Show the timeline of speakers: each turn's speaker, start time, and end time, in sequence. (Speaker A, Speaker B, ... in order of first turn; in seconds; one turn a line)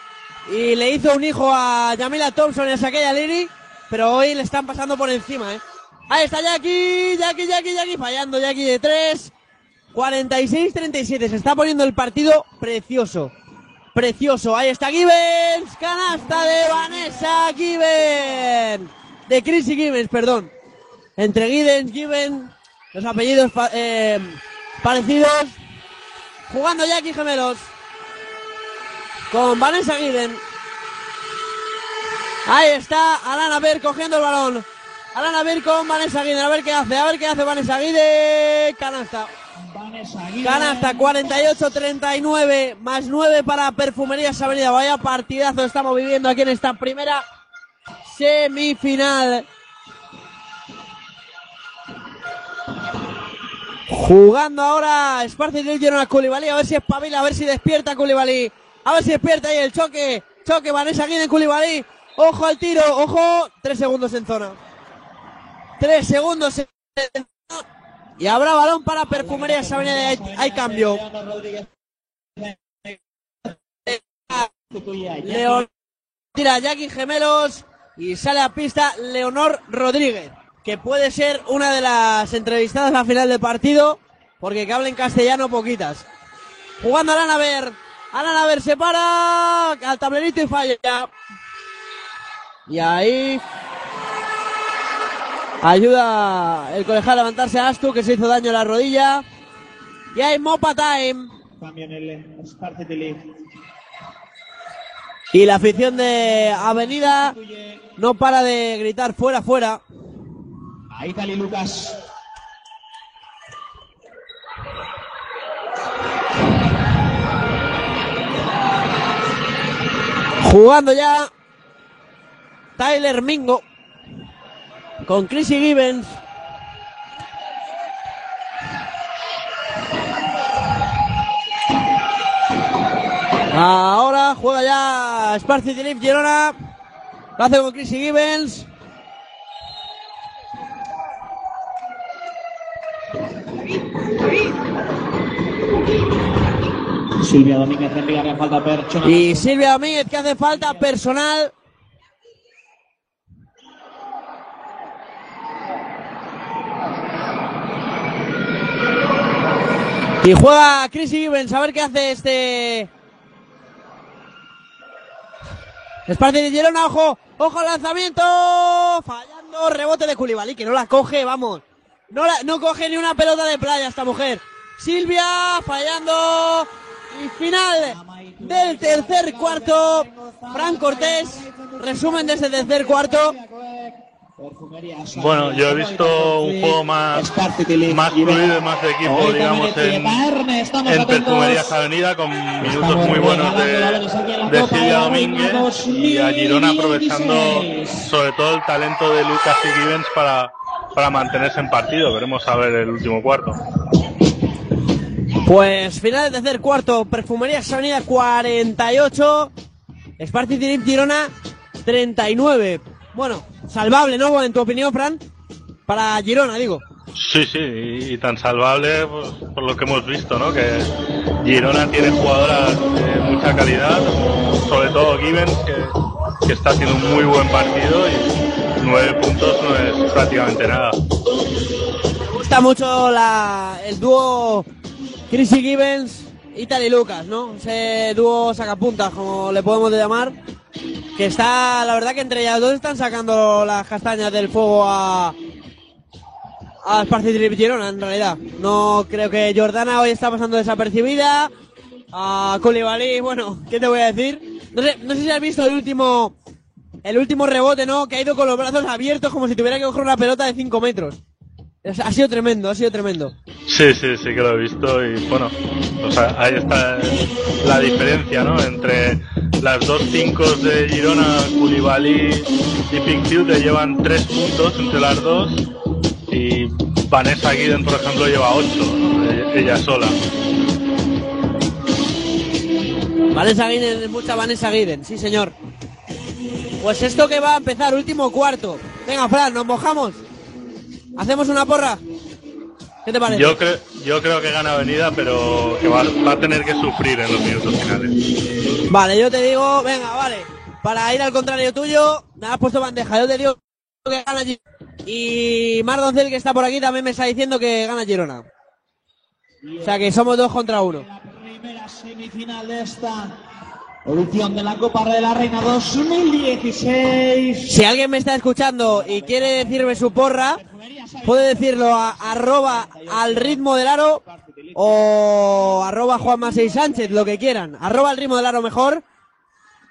Speaker A: 0.5-9.3
Speaker A: 9.9-13.3
Speaker A: 13.9-20.5
Speaker B: 16.7-17.1
Speaker A: 21.2-25.6
Speaker A: 26.5-27.7
Speaker A: 29.3-30.4
Speaker A: 32.5-39.3
Speaker B: 39.5-41.8
Speaker A: 40.4-47.2
Speaker A: 48.0-49.5
Speaker A: 53.9-64.6
Speaker A: 65.8-67.6
Speaker A: 68.2-71.0
Speaker B: 69.2-71.7
Speaker B: 72.3-73.5
Speaker A: 73.8-74.5
Speaker B: 74.3-75.7
Speaker A: 75.2-75.7
Speaker A: 76.3-86.0
Speaker A: 86.8-91.1
Speaker A: 92.7-93.4
Speaker A: 95.6-99.2
Speaker A: 100.1-101.3
Speaker B: 101.6-103.4
Speaker A: 105.3-107.3
Speaker B: 105.6-107.9
Speaker A: 108.0-109.8
Speaker B: 110.9-112.0
Speaker A: 120.4-121.3
Speaker A: 122.8-123.6
Speaker A: 125.0-126.2
Speaker A: 133.5-136.5
Speaker A: 137.4-138.7
Speaker B: 147.2-150.9
Speaker A: 149.0-151.5
Speaker A: 160.2-162.9
Speaker A: 166.1-183.3
Speaker B: 177.8-191.7
Speaker C: 185.1-187.3
Speaker C: 187.8-190.2
Speaker C: 190.8-203.6
Speaker B: 192.6-198.1
Speaker A: 205.4-209.5
Speaker A: 210.2-211.3
Speaker A: 211.8-215.2
Speaker A: 215.9-216.8
Speaker C: 217.1-220.9
Speaker C: 221.4-231.0
Speaker A: 232.2-234.7
Speaker A: 235.3-240.3
Speaker A: 241.2-245.3
Speaker A: 246.8-251.5
Speaker A: 252.1-256.3
Speaker A: 257.0-261.2
Speaker A: 261.8-263.3
Speaker C: 263.7-275.6
Speaker C: 276.3-280.1
Speaker A: 283.3-285.5
Speaker A: 286.8-290.2
Speaker A: 291.1-292.0
Speaker A: 293.1-293.6
Speaker C: 293.3-298.2
Speaker A: 298.9-308.4
Speaker B: 309.6-313.4
Speaker A: 309.8-311.1
Speaker B: 314.0-317.8
Speaker A: 317.7-320.6
Speaker B: 318.8-325.0
Speaker A: 321.2-324.2
Speaker A: 324.7-329.0
Speaker B: 325.6-327.4